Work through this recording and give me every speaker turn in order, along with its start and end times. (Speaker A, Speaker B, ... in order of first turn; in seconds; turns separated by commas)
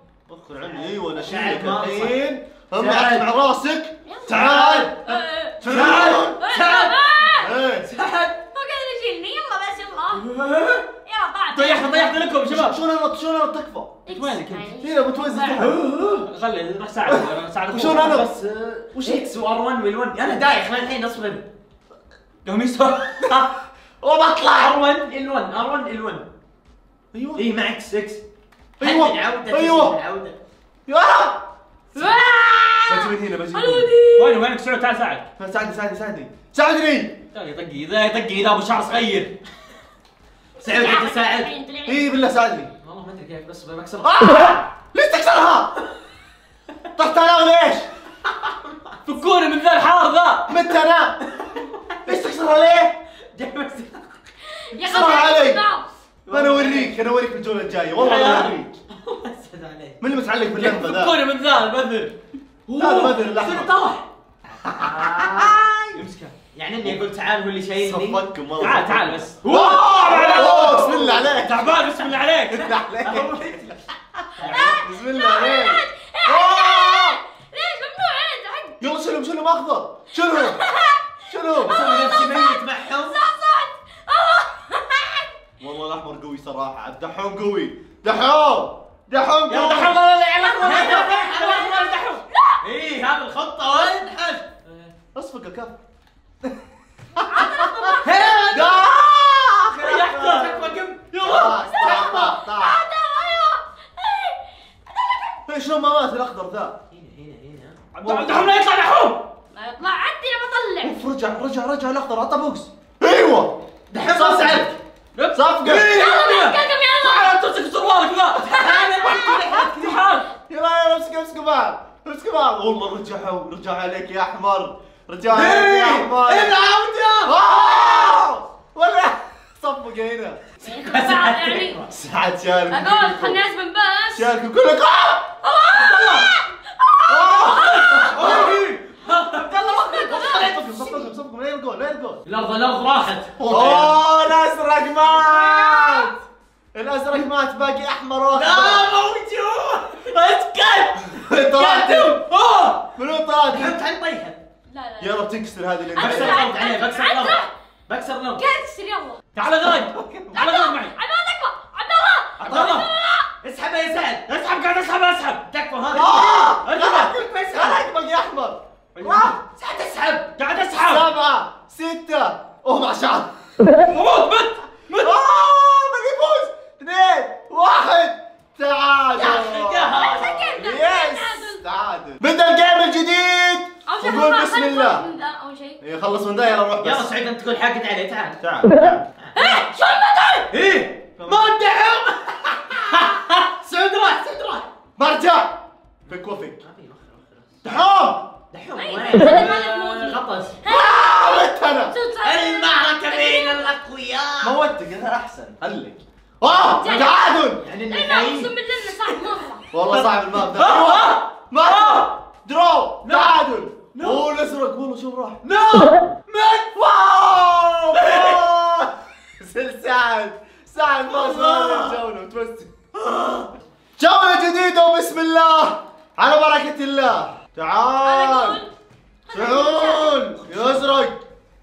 Speaker A: 0.3-5.0, Speaker B: 0.6-2.2, Speaker C: 2.8-3.2, Speaker D: 4.0-7.6, Speaker B: 4.3-4.9, Speaker A: 5.6-6.5, Speaker C: 5.6-6.9, Speaker B: 5.6-6.9, Speaker A: 7.3-7.9, Speaker B: 7.8-8.4, Speaker D: 8.4-10.3, Speaker B: 10.2-10.8, Speaker D: 11.0-12.3, Speaker C: 11.5-12.8, Speaker A: 12.5-14.0, Speaker D: 14.1-15.7, Speaker C: 14.1-14.7, Speaker A: 14.8-15.8, Speaker B: 15.6-16.2, Speaker C: 16.2-18.2, Speaker A: 17.1-18.3, Speaker B: 17.8-21.4, Speaker A: 18.9-19.3, Speaker C: 22.4-23.5, Speaker A: 24.0-24.8, Speaker B: 24.6-26.3, Speaker A: 27.1-27.4, Speaker B: 27.3-28.2, Speaker A: 28.8-29.9, Speaker B: 28.8-30.4, Speaker A: 30.9-31.4, Speaker D: 31.9-34.4, Speaker A: 32.9-33.9, Speaker C: 34.1-35.3, Speaker A: 35.4-37.1, Speaker C: 37.3-39.3, Speaker B: 40.6-41.5, Speaker D: 40.6-42.1, Speaker A: 41.8-42.7, Speaker B: 42.8-44.6, Speaker A: 44.0-45.7, Speaker A: 47.0-47.9, Speaker C: 49.0-50.6, Speaker A: 50.5-51.3, Speaker A: 52.0-53.0, Speaker B: 53.3-54.1, Speaker D: 54.7-55.9, Speaker A: 54.8-55.6, Speaker B: 56.2-56.9, Speaker A: 56.3-58.7, Speaker C: 58.0-58.5, Speaker B: 58.0-60.0, Speaker A: 60.0-61.1, Speaker C: 60.5-62.1, Speaker B: 62.7-64.0, Speaker A: 62.7-63.7, Speaker A: 64.6-66.0, Speaker B: 64.7-65.5, Speaker C: 65.9-66.3, Speaker B: 66.5-72.1, Speaker A: 67.8-71.7, Speaker C: 68.6-72.7, Speaker A: 72.5-77.2, Speaker B: 73.0-73.7, Speaker B: 74.3-74.7, Speaker C: 74.4-74.7, Speaker D: 74.4-78.9, Speaker A: 78.8-80.7, Speaker D: 80.1-85.3, Speaker A: 81.2-81.8, Speaker B: 81.6-83.2, Speaker A: 85.6-90.0, Speaker C: 89.5-92.2, Speaker D: 90.4-92.6, Speaker B: 90.6-92.0, Speaker B: 92.6-94.5, Speaker C: 94.6-94.9, Speaker A: 95.1-95.7, Speaker A: 97.1-102.8, Speaker D: 97.3-98.7, Speaker B: 98.0-98.9, Speaker C: 99.8-101.7, Speaker D: 101.6-105.4, Speaker B: 101.8-102.3, Speaker A: 105.5-106.8, Speaker B: 106.9-107.8, Speaker A: 107.9-108.6, Speaker C: 108.0-109.2, Speaker D: 109.5-111.0, Speaker A: 110.8-114.7, Speaker B: 113.9-114.8, Speaker C: 115.1-118.5, Speaker A: 115.3-116.0, Speaker D: 115.8-117.4, Speaker B: 118.4-120.0, Speaker A: 118.5-119.9, Speaker C: 119.6-120.3, Speaker A: 120.5-126.6, Speaker B: 125.3-127.3, Speaker A: 127.2-130.4, Speaker D: 130.6-131.8, Speaker B: 130.8-131.9, Speaker A: 131.9-133.4, Speaker D: 132.7-134.3, Speaker A: 134.1-135.3, Speaker D: 135.4-138.6, Speaker B: 135.8-136.2, Speaker A: 137.1-138.7, Speaker C: 137.6-138.1, Speaker B: 138.1-141.1, Speaker D: 139.4-140.5, Speaker A: 140.1-142.2, Speaker B: 142.2-143.9, Speaker A: 143.4-146.2, Speaker A: 146.7-148.9, Speaker B: 148.3-151.2, Speaker A: 151.2-152.2, Speaker C: 151.6-152.8, Speaker D: 151.7-152.2, Speaker A: 152.9-153.8, Speaker B: 153.5-154.4, Speaker D: 154.7-155.2, Speaker A: 155.0-156.5, Speaker D: 155.9-157.5, Speaker B: 156.0-158.4, Speaker D: 158.4-159.2, Speaker C: 159.3-160.9, Speaker A: 159.4-160.4, Speaker D: 160.3-163.3, Speaker A: 162.4-162.8, Speaker B: 162.4-162.9, Speaker B: 163.4-164.3, Speaker C: 164.3-165.4, Speaker B: 165.5-167.8, Speaker A: 165.9-169.4, Speaker C: 169.0-169.3, Speaker B: 169.0-170.4, Speaker C: 170.4-171.0, Speaker A: 170.8-173.3, Speaker C: 173.9-175.2, Speaker A: 175.0-185.1, Speaker B: 179.1-180.3, Speaker D: 179.9-181.6, Speaker D: 183.9-185.8, Speaker A: 185.8-187.1, Speaker B: 186.8-188.4, Speaker A: 188.4-189.1, Speaker D: 189.3-190.5, Speaker B: 190.5-194.7, Speaker A: 191.2-191.5, Speaker A: 195.0-195.6, Speaker A: 196.1-196.6, Speaker B: 196.6-197.6, Speaker A: 197.6-198.2, Speaker B: 198.5-200.6, Speaker D: 198.8-203.7, Speaker A: 200.6-201.9, Speaker B: 202.2-204.6, Speaker A: 204.4-207.6, Speaker D: 206.7-209.6, Speaker B: 207.6-208.5, Speaker A: 209.7-215.4, Speaker B: 210.4-212.0, Speaker C: 210.6-210.9, Speaker B: 213.0-213.4, Speaker B: 213.9-214.2, Speaker B: 215.4-216.7, Speaker A: 216.7-222.9, Speaker B: 221.1-221.9, Speaker B: 223.0-223.4, Speaker A: 224.0-228.6, Speaker D: 228.0-228.7, Speaker D: 229.3-230.2, Speaker A: 229.3-231.2